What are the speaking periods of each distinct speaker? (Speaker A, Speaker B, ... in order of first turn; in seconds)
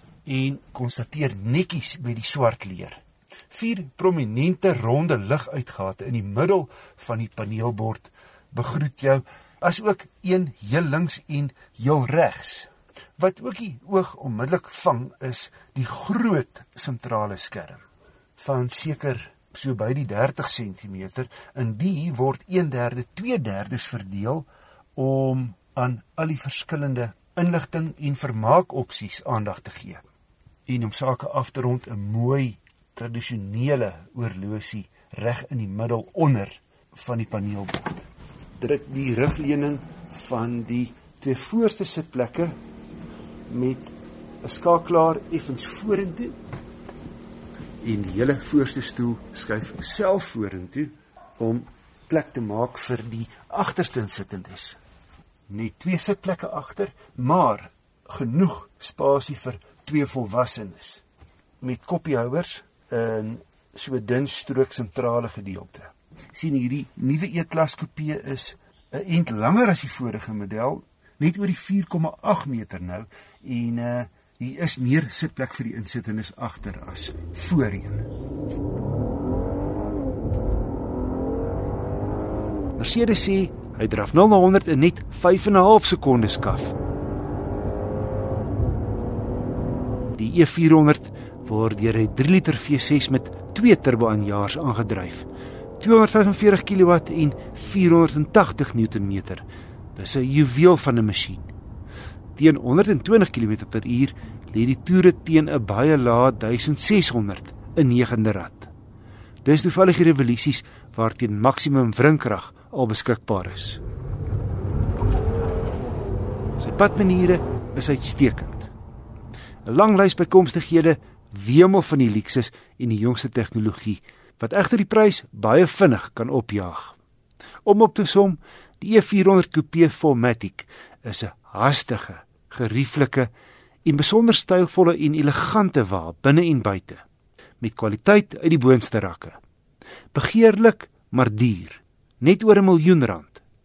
Speaker A: 0.2-17.8, 18.4-30.0, 30.7-38.0, 38.6-42.5, 43.5-46.3, 47.8-54.8, 55.5-61.0, 61.6-78.1, 82.8-86.7, 90.1-95.3, 95.8-101.5, 102.3-108.7, 109.4-113.8, 116.6-118.7, 119.6-127.0, 127.6-133.3, 133.8-137.0, 137.6-139.4, 140.1-143.4